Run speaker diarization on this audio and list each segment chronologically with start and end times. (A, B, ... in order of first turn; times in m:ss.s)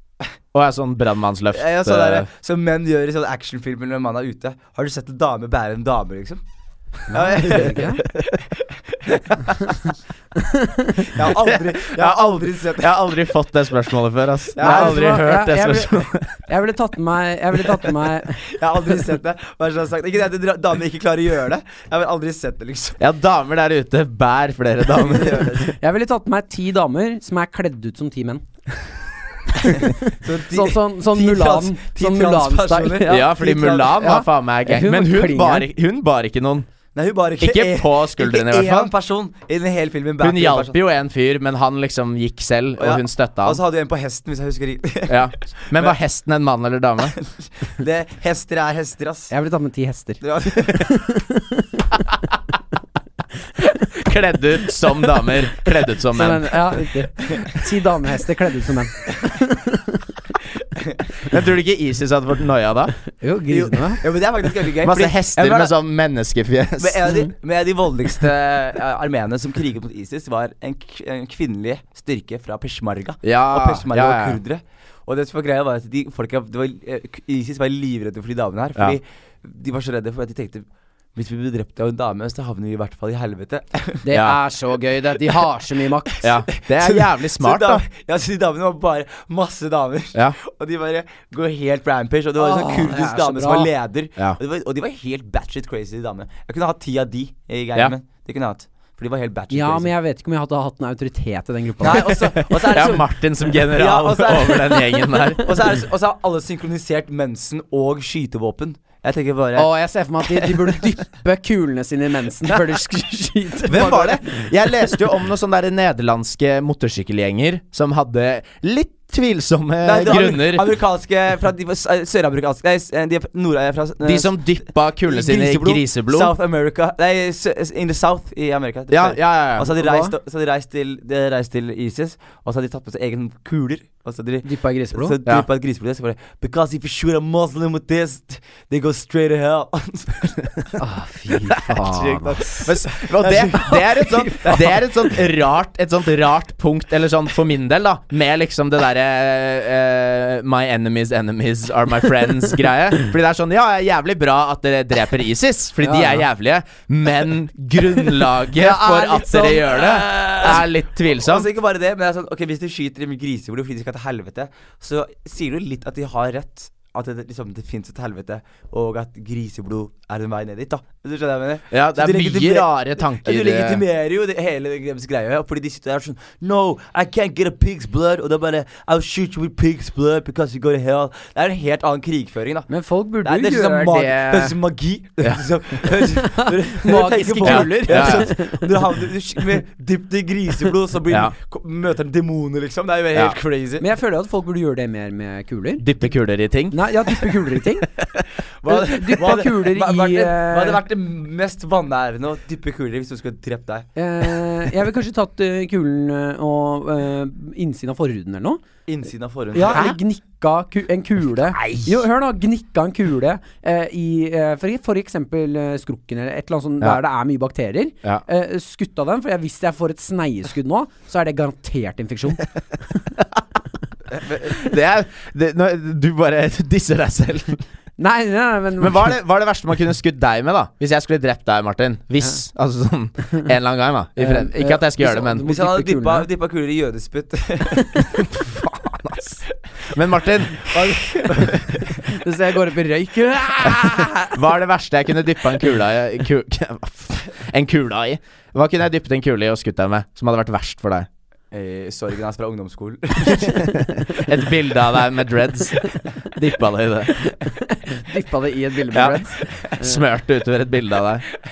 0:00.5-0:02.3 A
0:01.5-0:06.4 B
0:07.1-0:08.0 C
0:07.1-0:09.5 B
0:09.6-0:11.2 C
0:11.0-0:13.1 B
0:11.2-0:16.3 A
0:14.5-0:15.1 B
0:14.6-0:18.5 C
0:18.4-0:23.0 B
0:23.0-0:25.6 A
0:24.9-0:25.8 B
0:25.8-0:28.4 C
0:29.5-0:33.4 C
0:29.7-0:34.0 B
0:33.1-0:36.7 A
0:33.9-0:35.7 C
0:36.9-0:40.7 B
0:37.4-0:38.9 A
0:40.2-0:43.6 A
0:42.8-0:45.9 B
0:45.1-0:47.2 A
0:47.2-0:49.3 B
0:49.3-0:51.8 C
0:50.2-0:51.0 B
0:53.8-0:56.9 A
0:56.1-1:00.1 C
1:01.2-1:03.0 A
1:03.2-1:04.0 C
1:03.5-1:05.7 B
1:04.8-1:07.1 A
1:06.8-1:24.0 B
1:13.2-1:14.4 A
1:24.0-1:26.4 C
1:24.1-1:24.4 A
1:26.2-1:27.8 A
1:26.5-1:39.9 B
1:32.4-1:33.7 C
1:39.5-1:42.1 C
1:41.8-1:49.7 B
1:42.0-1:45.7 A
1:49.6-1:54.4 C
1:53.7-2:00.6 A
1:59.8-2:20.7 B
2:04.0-2:06.3 A
2:08.9-2:09.9 A
2:09.8-2:10.1 C
2:14.4-2:15.1 C
2:20.8-2:22.7 C
2:21.5-2:41.5 A
2:22.6-2:24.8 B
2:23.6-2:24.4 C
2:35.8-2:36.2 C
2:38.6-2:39.7 C
2:39.5-3:02.7 B
2:51.7-2:53.8 A
3:02.7-3:04.6 C
3:03.2-3:13.8 B
3:06.1-3:08.6 C
3:07.4-3:08.3 A
3:13.8-3:15.8 C
3:15.8-3:17.3 A
3:16.7-3:17.9 C
3:18.6-3:24.7 B
3:18.7-3:20.8 C
3:24.0-3:28.6 C
3:28.9-3:29.9 B
3:29.5-3:43.1 C
3:29.7-3:30.0 A
3:31.5-3:32.0 A
3:44.3-3:47.6 A
3:48.0-3:49.1 C
3:48.8-3:55.5 A
3:54.2-3:56.3 C
3:55.4-3:58.3 B
3:58.1-4:01.8 A
4:00.6-4:02.0 B
4:02.0-4:04.3 C
4:03.6-4:11.1 A
4:11.5-4:13.8 B
4:13.2-4:17.3 A
4:17.4-4:20.0 C
4:18.9-4:21.2 A